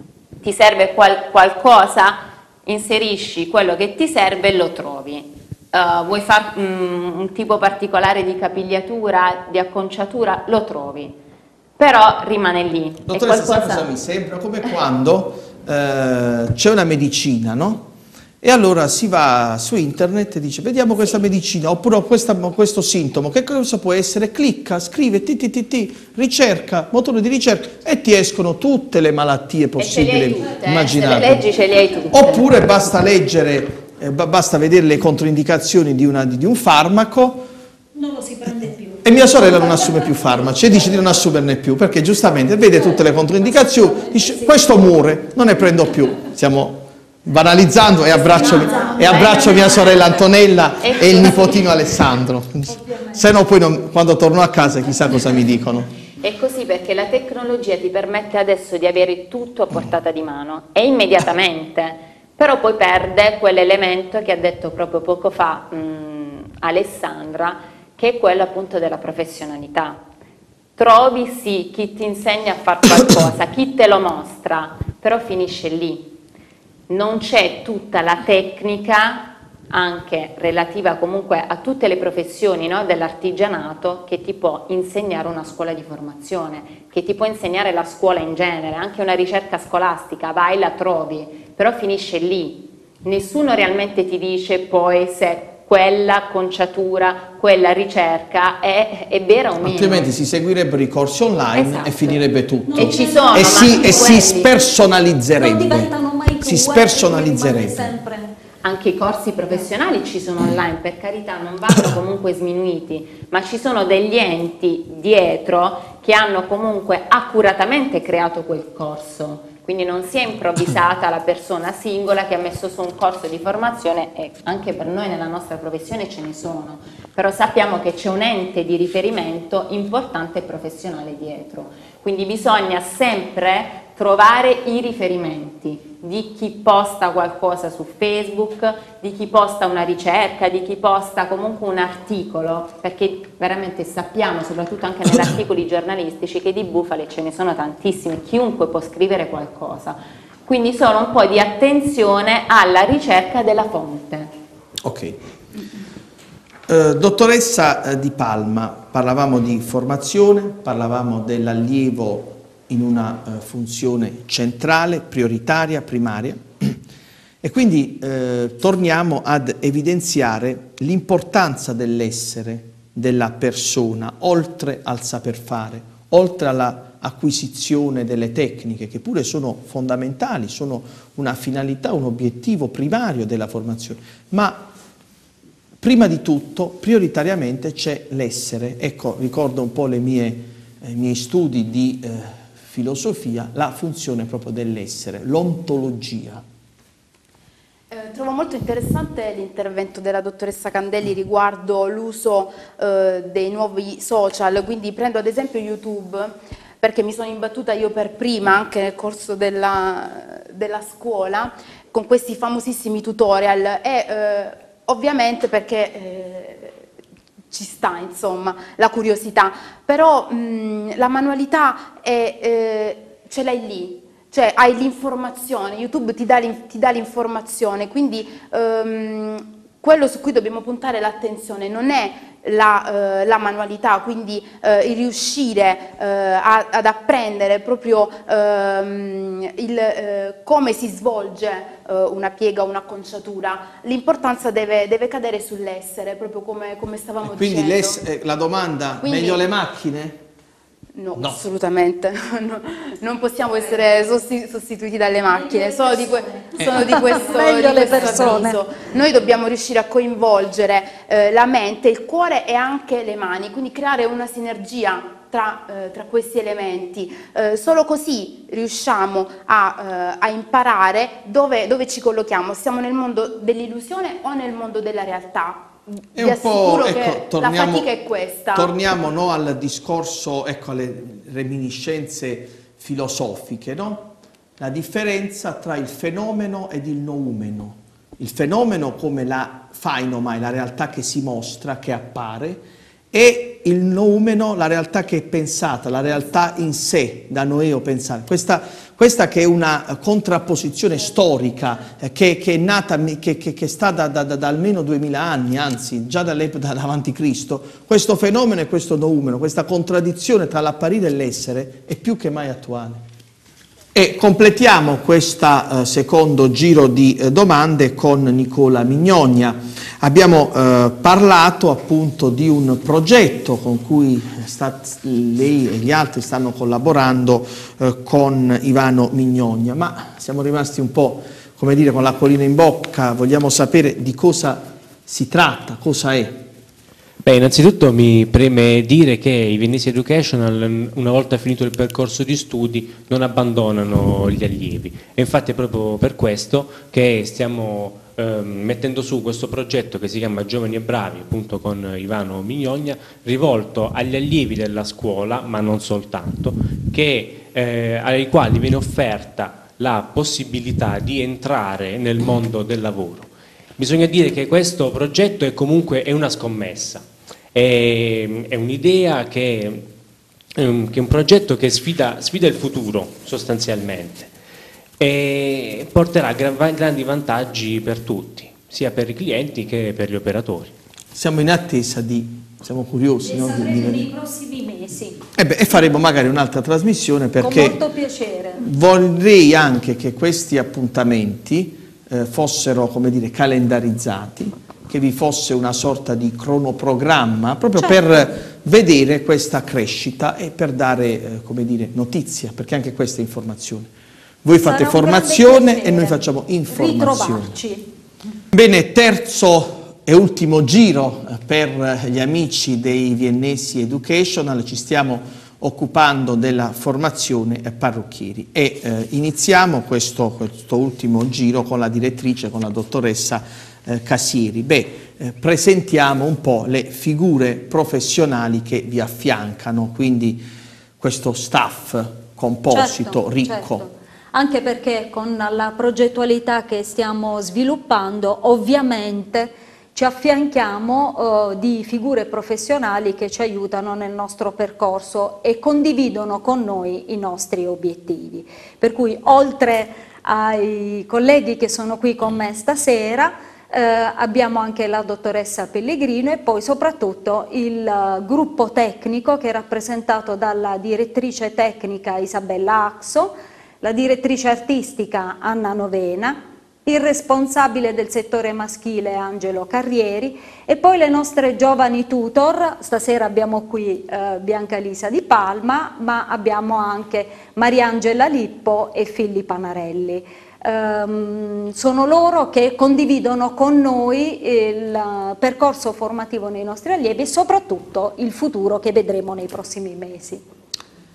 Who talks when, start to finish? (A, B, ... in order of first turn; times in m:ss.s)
0:00.4-0:11.2 A
0:11.8-0:13.9 A
0:13.0-0:17.9 B
0:18.4-0:31.5 B
0:29.8-0:32.6 A
0:32.1-0:37.5 B
0:37.9-0:39.0 C
0:39.0-0:55.9 B
0:43.9-0:44.1 C
0:48.1-0:51.8 A
0:56.2-1:10.0 A
1:10.8-1:16.2 A
1:16.9-1:40.1 A
1:39.6-1:48.0 B
1:41.5-1:42.2 A
1:42.7-1:44.0 C
1:42.7-1:44.6 A
1:45.4-1:48.3 C
1:48.6-2:34.3 A
2:34.8-2:35.2 B
2:36.7-2:46.8 B
2:47.4-3:04.7 B
3:05.8-3:16.4 B
3:17.9-3:36.8 D
3:37.5-4:08.0 D
4:07.2-4:10.2 B
4:09.0-4:09.4 D
4:11.0-4:38.7 D
4:11.2-4:11.4 B
4:15.3-4:18.6 C
4:36.1-4:37.9 B
4:38.5-5:13.0 B
5:13.9-5:36.4 B
5:37.2-6:09.9 E
6:10.5-6:14.3 E
6:15.0-6:20.7 E
6:21.1-6:24.1 B
6:23.2-6:25.2 C
6:25.3-6:27.8 B
6:27.4-6:28.7 C
6:28.6-6:43.9 B
6:37.8-6:38.0 C
6:44.4-6:47.6 B
6:44.6-6:47.9 C
6:48.5-7:10.4 B
7:11.0-7:13.9 B
7:12.7-8:10.4 C